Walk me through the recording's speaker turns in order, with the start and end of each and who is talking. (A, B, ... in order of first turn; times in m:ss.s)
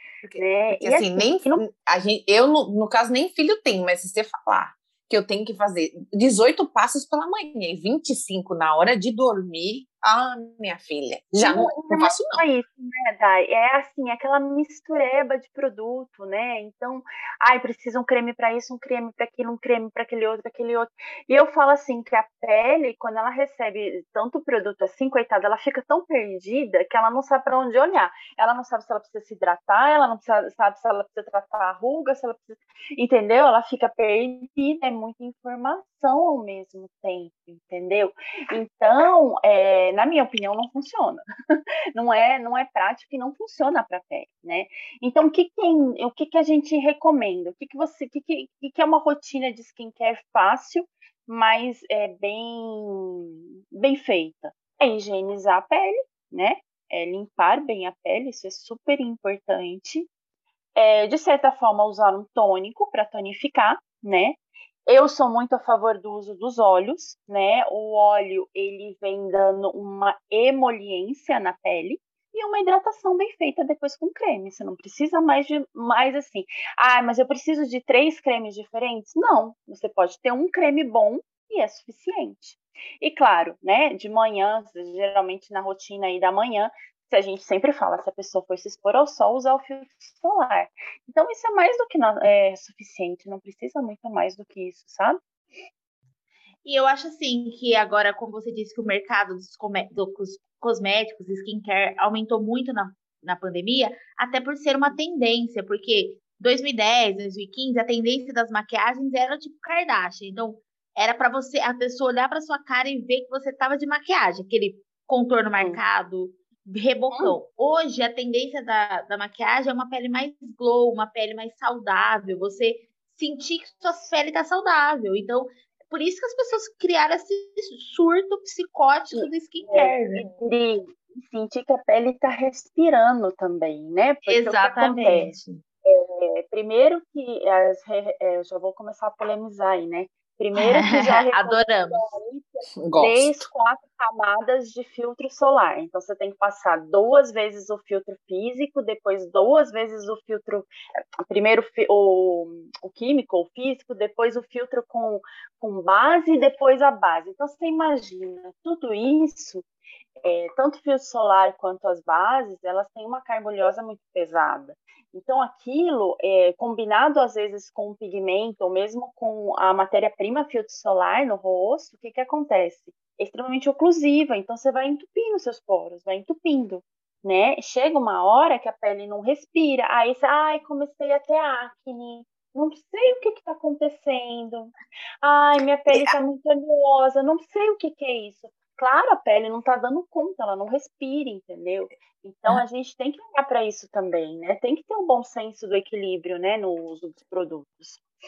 0:00.2-0:12.4 A
0:00.4-0:01.6 B
0:11.4-0:41.2 B
0:41.9-1:00.1 B
1:00.8-1:35.2 B
1:36.6-2:10.2 C
1:57.1-1:57.4 B
2:09.1-2:30.7 B
2:14.3-2:15.6 C
2:20.6-2:22.1 C
2:22.8-2:23.3 A
2:31.2-2:39.6 B
2:40.2-3:18.0 B
3:05.9-3:06.2 A